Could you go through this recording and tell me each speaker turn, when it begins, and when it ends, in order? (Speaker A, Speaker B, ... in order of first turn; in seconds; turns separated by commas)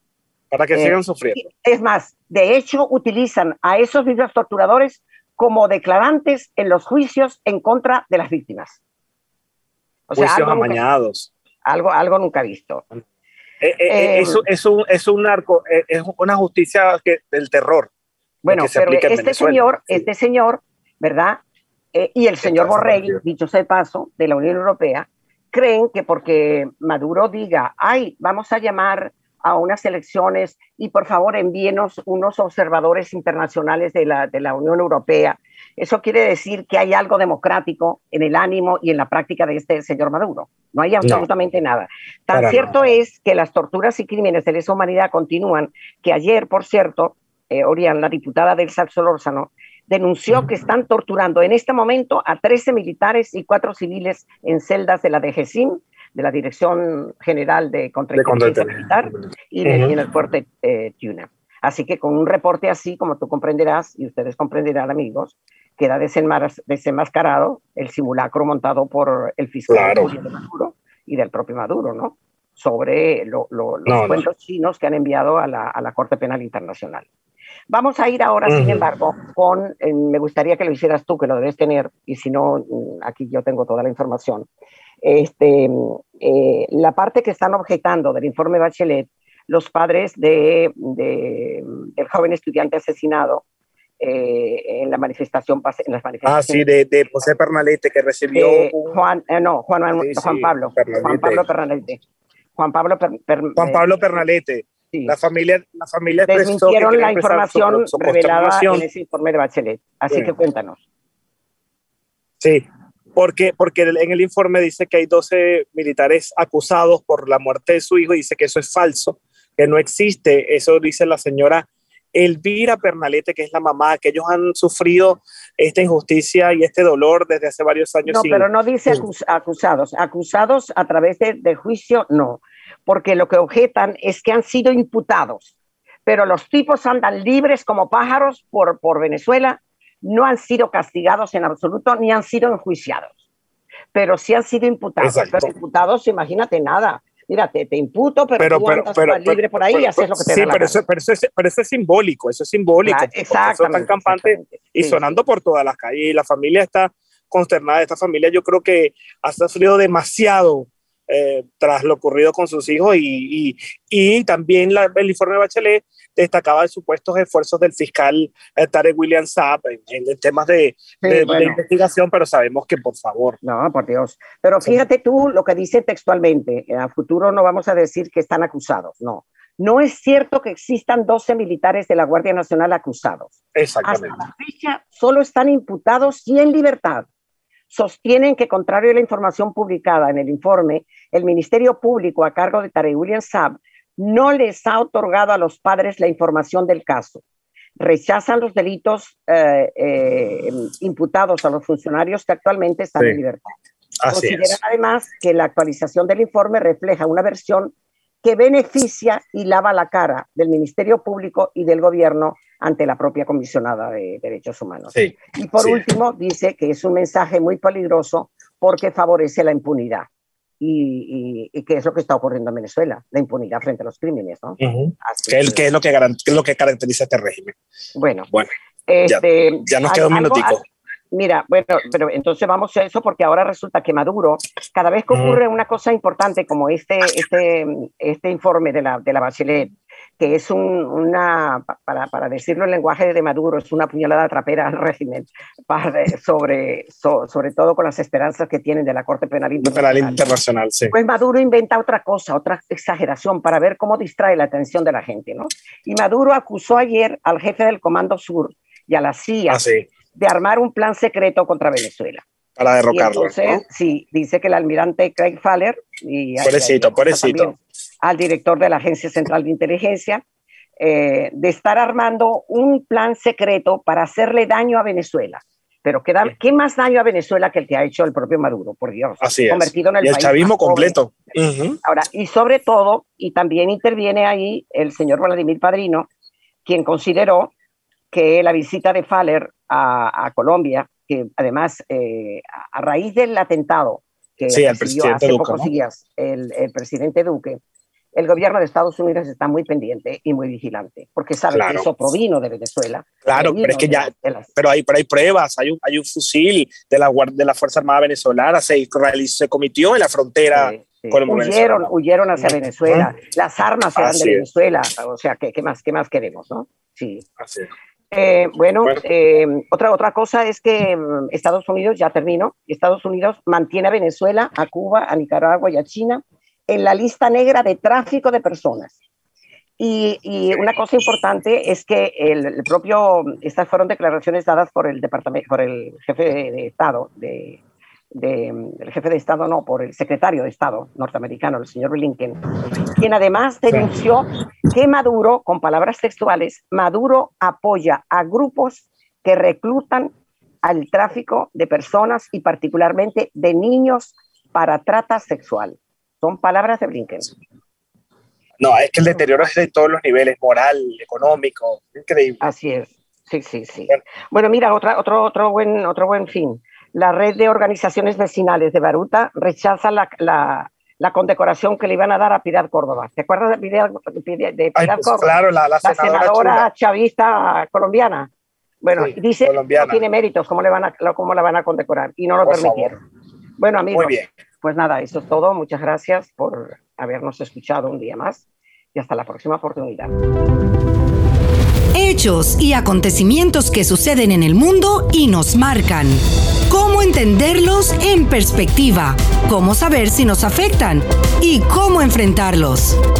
Speaker A: 0.5-1.4, Speaker B: 0.7-8.8, Speaker B: 10.1-10.8, Speaker A: 10.2-11.3, Speaker B: 11.7-12.8, Speaker A: 13.6-17.9, Speaker B: 13.9-14.4, Speaker B: 18.4-21.4, Speaker A: 18.5-20.0, Speaker B: 21.9-77.1, Speaker A: 22.4-23.2, Speaker A: 42.3-42.7, Speaker A: 58.1-59.9, Speaker A: 69.7-70.1, Speaker A: 73.8-74.2, Speaker B: 77.7-84.5, Speaker A: 78.5-78.9, Speaker B: 85.0-93.4, Speaker B: 94.0-96.7, Speaker A: 96.2-99.0, Speaker B: 98.3-102.0, Speaker A: 100.0-101.4, Speaker B: 102.5-103.9, Speaker A: 103.5-108.8, Speaker B: 106.3-110.8, Speaker A: 112.4-129.0, Speaker B: 128.0-135.5, Speaker B: 136.1-143.2, Speaker B: 143.9-150.8, Speaker A: 145.0-145.5, Speaker A: 148.4-173.4, Speaker B: 152.8-155.1, Speaker B: 171.0-171.6, Speaker B: 173.4-187.1, Speaker A: 183.5-184.2, Speaker B: 187.7-197.2, Speaker B: 197.8-203.5, Speaker A: 204.0-204.6, Speaker B: 204.1-220.1, Speaker A: 214.9-215.8, Speaker B: 220.6-225.7, Speaker A: 224.6-227.6, Speaker B: 227.9-228.3, Speaker B: 228.9-250.2, Speaker A: 229.0-230.6, Speaker A: 235.1-235.4, Speaker A: 249.6-250.9, Speaker B: 250.9-259.6, Speaker A: 259.5-259.9, Speaker B: 260.1-262.2, Speaker A: 262.6-263.6, Speaker B: 262.9-270.2, Speaker A: 266.4-267.5, Speaker B: 270.8-280.9, Speaker A: 279.2-281.8, Speaker B: 281.8-286.1, Speaker B: 286.6-287.5, Speaker B: 288.1-297.6, Speaker A: 294.5-295.7, Speaker B: 298.1-304.5, Speaker A: 301.5-301.9, Speaker A: 303.2-313.1, Speaker B: 310.5-317.2, Speaker A: 313.9-314.4, Speaker A: 317.4-317.7, Speaker B: 318.1-329.0, Speaker B: 329.8-337.6, Speaker B: 338.1-342.4, Speaker B: 342.9-350.1, Speaker B: 350.6-357.3, Speaker A: 358.6-362.4, Speaker B: 362.4-378.3, Speaker A: 374.8-376.7, Speaker B: 378.8-383.0, Speaker A: 378.9-380.0, Speaker A: 382.4-383.0, Speaker B: 383.6-390.1, Speaker A: 383.9-384.3, Speaker C: 391.9-403.0